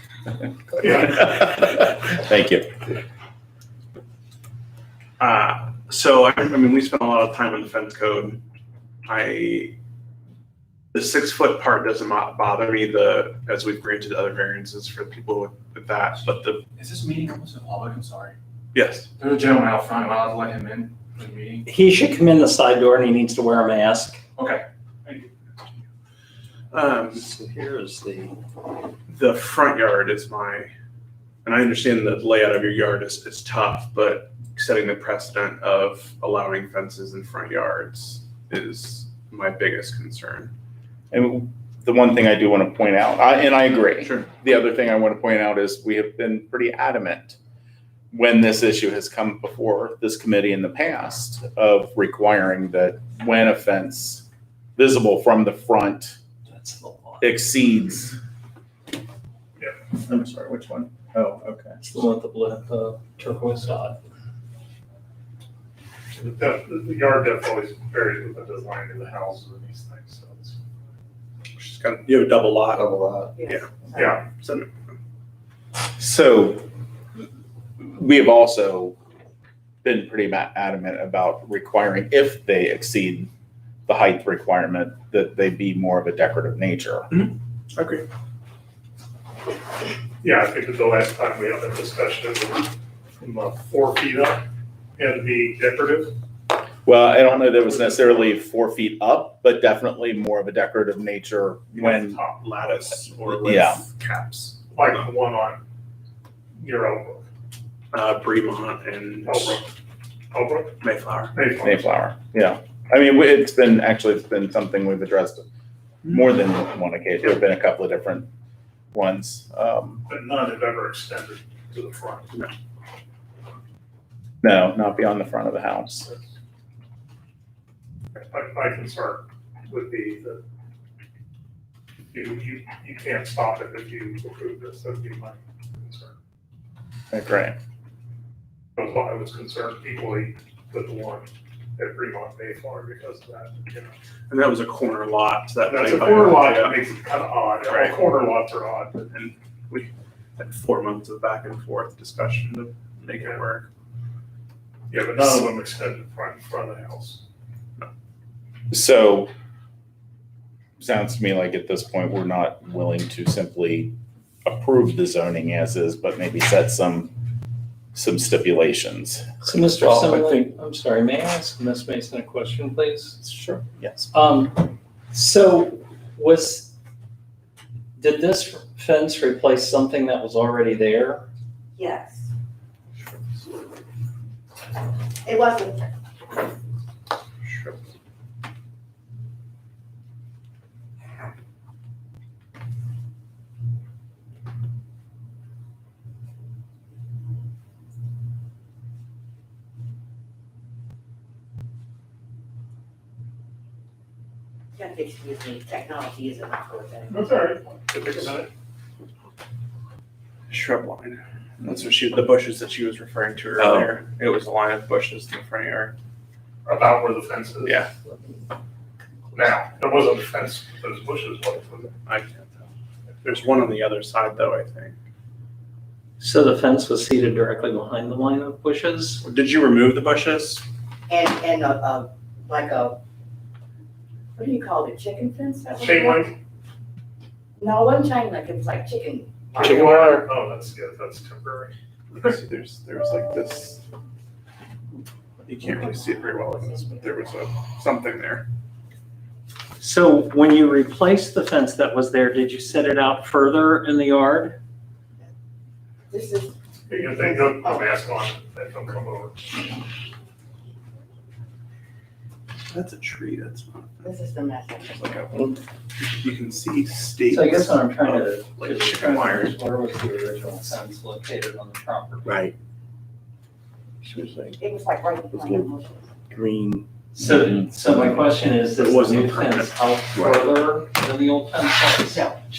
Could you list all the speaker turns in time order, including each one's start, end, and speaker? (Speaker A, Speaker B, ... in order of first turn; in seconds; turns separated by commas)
Speaker A: 0.3-2.9, Speaker B: 5.2-8.4, Speaker B: 9.1-9.8, Speaker B: 10.9-16.6, Speaker C: 16.8-18.4, Speaker B: 18.7-19.1, Speaker C: 19.2-21.7, Speaker D: 21.7-24.2, Speaker C: 24.4-25.3, Speaker B: 26.7-27.3, Speaker D: 27.2-28.3, Speaker B: 29.1-30.7, Speaker B: 31.4-40.5, Speaker A: 41.1-47.4, Speaker A: 48.1-54.3, Speaker A: 54.8-56.2, Speaker D: 56.5-57.3, Speaker A: 57.2-58.2, Speaker A: 60.0-61.7, Speaker D: 61.8-64.0, Speaker E: 66.1-70.6, Speaker B: 71.6-73.7, Speaker F: 72.7-73.3, Speaker G: 73.4-74.2, Speaker E: 73.9-74.2, Speaker B: 74.3-74.7, Speaker A: 76.0-76.7, Speaker A: 77.8-79.0, Speaker A: 79.8-83.3, Speaker A: 83.9-87.1, Speaker B: 87.1-88.0, Speaker E: 90.2-94.4, Speaker E: 95.0-96.1, Speaker A: 96.8-102.2, Speaker E: 97.3-98.3, Speaker E: 101.7-102.7, Speaker B: 102.4-105.0, Speaker A: 103.4-103.8, Speaker E: 104.7-105.6, Speaker E: 106.6-107.3, Speaker B: 107.9-109.7, Speaker E: 109.2-109.7, Speaker E: 110.3-110.8, Speaker B: 110.8-111.3, Speaker E: 111.3-111.9, Speaker A: 111.6-115.5, Speaker A: 116.0-118.3, Speaker A: 118.9-120.0, Speaker E: 120.1-122.3, Speaker A: 124.4-126.1, Speaker E: 126.0-126.3, Speaker E: 128.2-130.4, Speaker E: 132.1-136.2, Speaker A: 137.1-137.6, Speaker E: 138.8-143.9, Speaker B: 144.3-146.8, Speaker E: 145.6-149.1, Speaker B: 147.7-148.0, Speaker B: 149.1-153.7, Speaker E: 153.1-153.4, Speaker E: 154.9-157.2, Speaker A: 158.7-159.3, Speaker A: 160.8-167.2, Speaker A: 167.9-169.3, Speaker D: 169.4-173.2, Speaker A: 173.2-174.1, Speaker D: 174.1-176.7, Speaker D: 178.0-181.3, Speaker G: 181.8-182.3, Speaker G: 185.2-185.9, Speaker B: 187.4-187.8, Speaker G: 204.8-207.2, Speaker E: 207.1-208.5, Speaker B: 210.5-216.0, Speaker F: 213.6-213.9, Speaker E: 216.7-217.8, Speaker E: 219.3-221.9, Speaker B: 222.1-222.7, Speaker B: 223.2-225.0, Speaker D: 226.2-229.2, Speaker B: 229.2-230.6, Speaker G: 231.1-233.0, Speaker G: 234.3-236.3, Speaker E: 235.8-236.3, Speaker G: 237.6-239.8, Speaker E: 239.6-241.8, Speaker B: 242.1-243.8, Speaker B: 245.5-248.5, Speaker G: 245.6-247.4, Speaker D: 249.8-254.6, Speaker G: 256.1-257.8, Speaker E: 256.9-259.4, Speaker B: 262.7-264.1, Speaker G: 264.0-265.1, Speaker B: 264.9-265.3, Speaker F: 265.3-265.6, Speaker B: 266.0-269.6, Speaker D: 267.3-272.3, Speaker F: 272.2-272.5, Speaker F: 274.0-274.6, Speaker G: 274.6-276.1, Speaker F: 275.3-275.7, Speaker F: 276.3-276.9, Speaker D: 277.1-282.3, Speaker B: 278.8-279.9, Speaker G: 282.1-282.4